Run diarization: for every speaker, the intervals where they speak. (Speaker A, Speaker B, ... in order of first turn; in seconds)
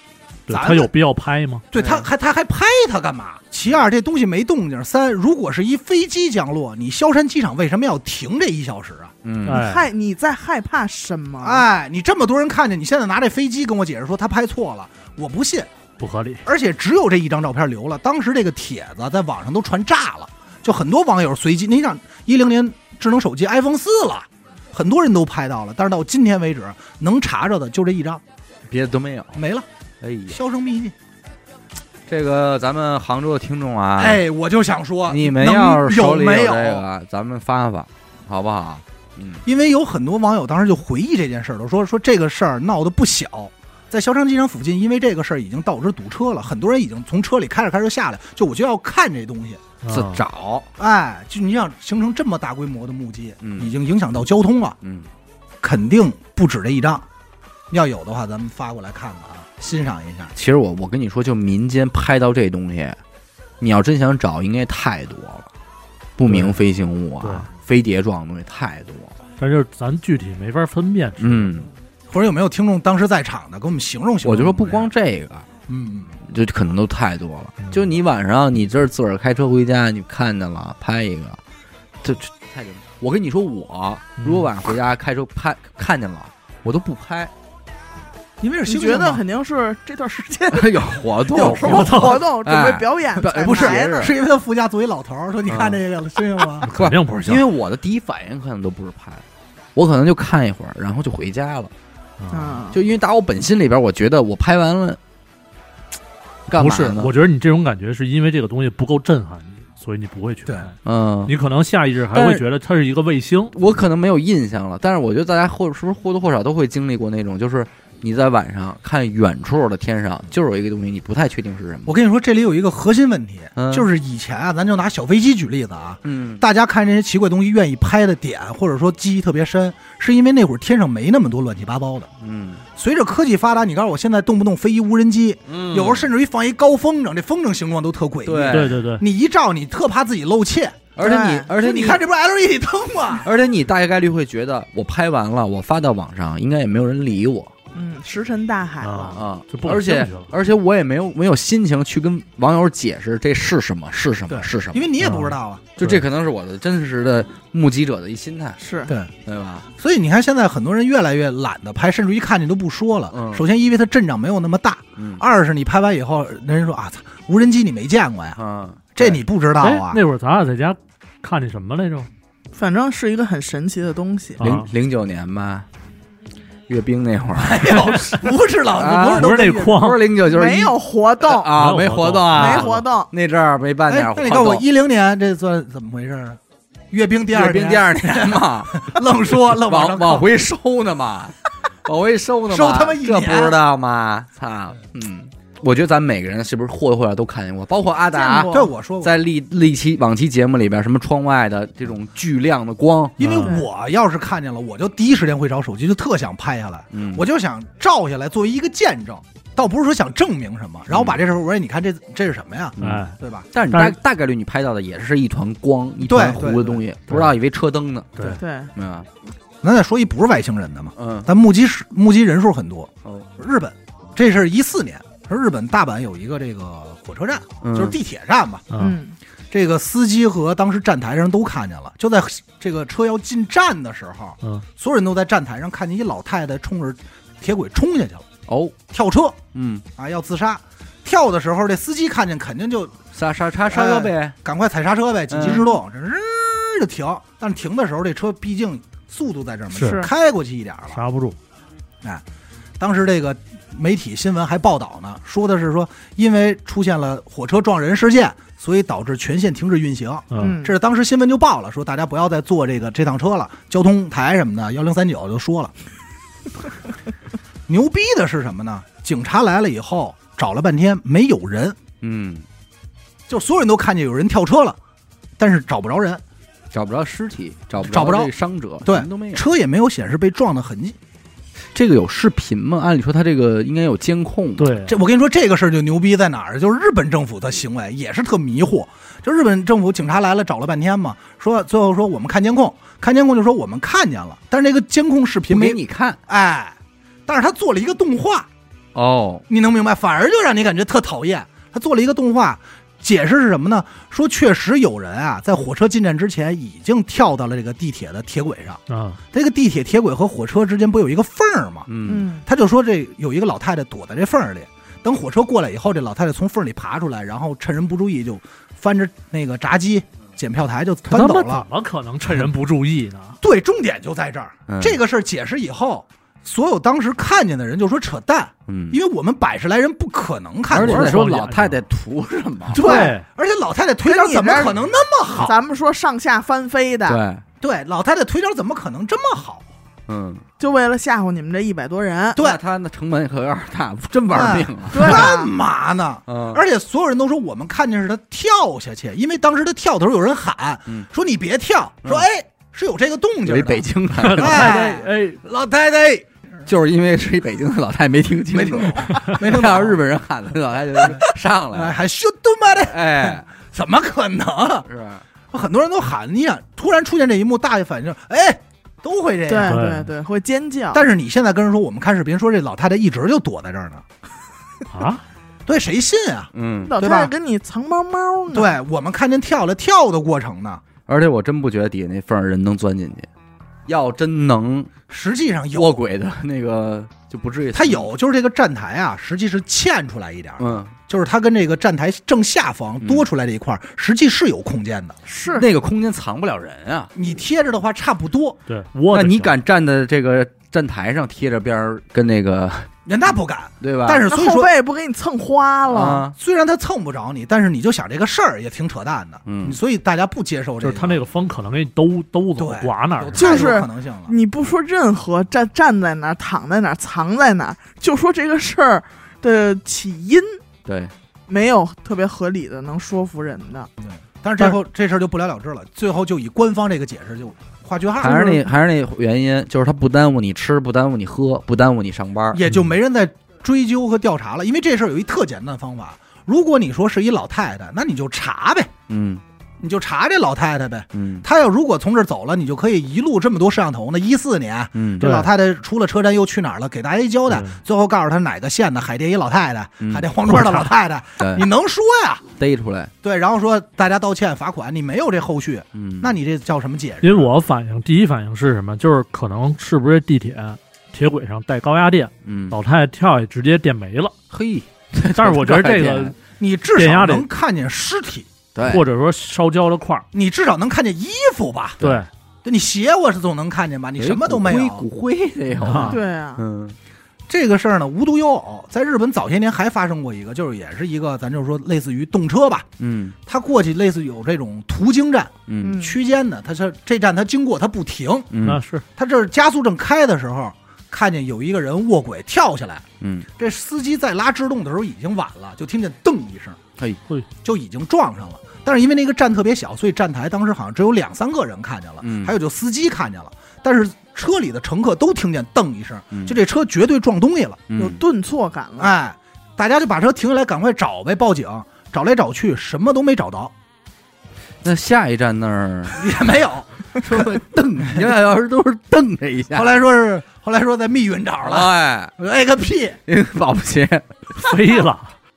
Speaker A: 0.5-1.6, 9.4-9.9, 16.0-16.4, 49.8-50.2, 66.3-66.6, 67.2-67.5, 69.4-71.5, 77.6-77.8, 84.2-84.5, 91.4-92.2, 96.6-97.4, 102.2-102.6, 106.5-110.7, 111.3-113.5, 138.5-139.0, 148.8-150.3, 155.0-156.0, 169.6-172.1, 174.4-174.7, 177.7-178.0, 179.1-180.0, 181.5-182.8, 203.2-203.6, 212.8-213.1, 213.7-213.9, 228.7-229.0, 249.7-250.1, 250.9-251.4, 260.3-260.6, 284.6-285.0, 308.9-309.2, 321.1-323.4, 330.7-331.8, 332.8-333.2, 354.1-355.4, 369.6-370.1, 374.9-375.2, 398.7-399.5, 410.8-413.7, 445.2-445.5, 447.5-447.8, 450.5-450.9, 457.2-464.3, 465.3-466.3, 466.9-467.4, 468.8-470.2, 472.0-472.3, 475.8-476.2, 488.6-489.0, 524.6-525.3
Speaker B: 0.5-0.9, 1.7-9.1, 11.4-15.7, 16.4-28.2, 29.3-29.7, 30.3-30.9, 34.0-36.8, 39.4-49.6, 50.8-54.8, 55.6-57.0, 57.7-60.3, 72.1-74.9, 75.7-76.2, 88.4-89.2, 93.4-96.7, 121.8-132.1, 132.8-140.9, 141.5-143.3, 154.3-155.8, 159.8-168.4, 168.9-170.0, 177.3-179.8, 183.9-186.4, 186.9-190.3, 192.5-193.6, 198.5-199.1, 203.2-213.5, 216.0-216.8, 219.6-228.6, 229.5-238.2, 238.9-239.4, 239.9-242.9, 243.7-251.0, 252.8-265.7, 267.7-271.8, 273.3-274.8, 275.4-276.2, 277.8-278.3, 278.8-281.0, 284.8-298.5, 299.5-321.7, 323.4-331.2, 332.7-335.6, 337.6-339.6, 344.3-356.2, 358.5-360.0, 361.0-364.9, 365.5-369.8, 370.9-374.0, 375.6-377.3, 378.5-380.8, 385.1-386.0, 387.7-395.2, 397.1-398.6, 403.1-404.7, 406.3-411.2, 412.6-414.3, 424.0-428.6, 432.5-438.9, 439.8-452.4, 453.2-457.5, 466.6-468.5, 470.3-472.0, 472.6-475.1, 477.5-482.9, 483.5-488.5, 489.2-493.1, 493.6-496.8, 497.6-507.9, 509.0-513.7, 516.1-517.6, 519.7-523.2
Speaker C: 1.7-2.1, 9.2-9.6, 28.7-29.4, 30.0-30.4, 32.1-34.2, 35.1-39.4, 49.9-50.7, 53.4-53.7, 54.8-55.1, 60.4-63.0, 63.6-65.5, 66.2-69.2, 71.2-71.7, 74.2-75.5, 76.2-81.4, 82.0-87.3, 90.5-94.1, 95.5-95.8, 96.7-99.2, 99.7-101.7, 102.7-105.0, 106.5-107.1, 110.8-111.3, 112.1-112.5, 113.5-121.9, 123.5-123.9, 126.0-126.4, 132.2-132.6, 135.5-136.1, 138.2-138.8, 140.9-142.0, 143.2-147.5, 149.1-154.9, 155.8-158.6, 159.2-159.7, 163.1-163.4, 165.0-165.2, 168.3-169.2, 174.4-175.7, 176.7-177.9, 178.7-184.6, 187.3-189.0, 189.5-198.5, 199.0-203.2, 206.9-207.2, 210.9-211.2, 212.8-219.1, 221.0-221.3, 227.6-228.0, 238.5-238.8, 239.5-239.8, 243.1-244.3, 245.3-245.6, 272.0-272.4, 276.7-279.4, 281.7-284.8, 295.5-296.2, 298.9-299.4, 311.9-312.3, 324.7-325.0, 328.7-329.0, 330.7-332.8, 337.1-337.4, 340.1-340.4, 342.4-345.3, 346.3-346.6, 353.4-354.9, 356.6-362.0, 362.9-363.4, 364.9-365.2, 376.5-376.9, 381.1-383.3, 383.9-384.9, 385.7-388.1, 390.6-390.9, 395.5-397.1, 399.1-402.9, 403.8-404.2, 405.9-406.4, 409.4-409.8, 420.9-421.1, 428.2-432.6, 439.1-439.4, 441.1-441.4, 444.9-445.3, 450.0-450.3, 451.4-451.7, 452.6-453.1, 455.9-456.3, 462.4-462.8, 464.5-466.3, 468.7-469.1, 474.2-476.9, 483.0-483.4, 485.7-486.0, 488.5-488.8, 493.2-493.5, 502.2-502.5, 506.3-506.6, 507.9-508.2, 514.8-516.2, 517.1-519.9, 521.6-522.3, 523.3-524.7
Speaker D: 9.5-11.7, 88.7-94.1, 102.3-102.8, 141.0-141.5, 147.7-149.2, 158.6-158.9, 172.5-174.4, 180.3-181.5, 182.3-183.1, 198.1-198.7, 218.4-218.7, 228.8-229.2, 249.8-250.1, 260.3-260.7, 312.1-312.4, 332.8-333.1, 334.0-334.8, 335.4-337.2, 340.6-342.4, 344.9-345.5, 369.5-371.1, 376.9-378.7, 395.2-395.7, 404.3-406.2, 413.4-420.6, 421.5-423.9, 476.1-476.6, 485.8-486.1, 508.0-509.1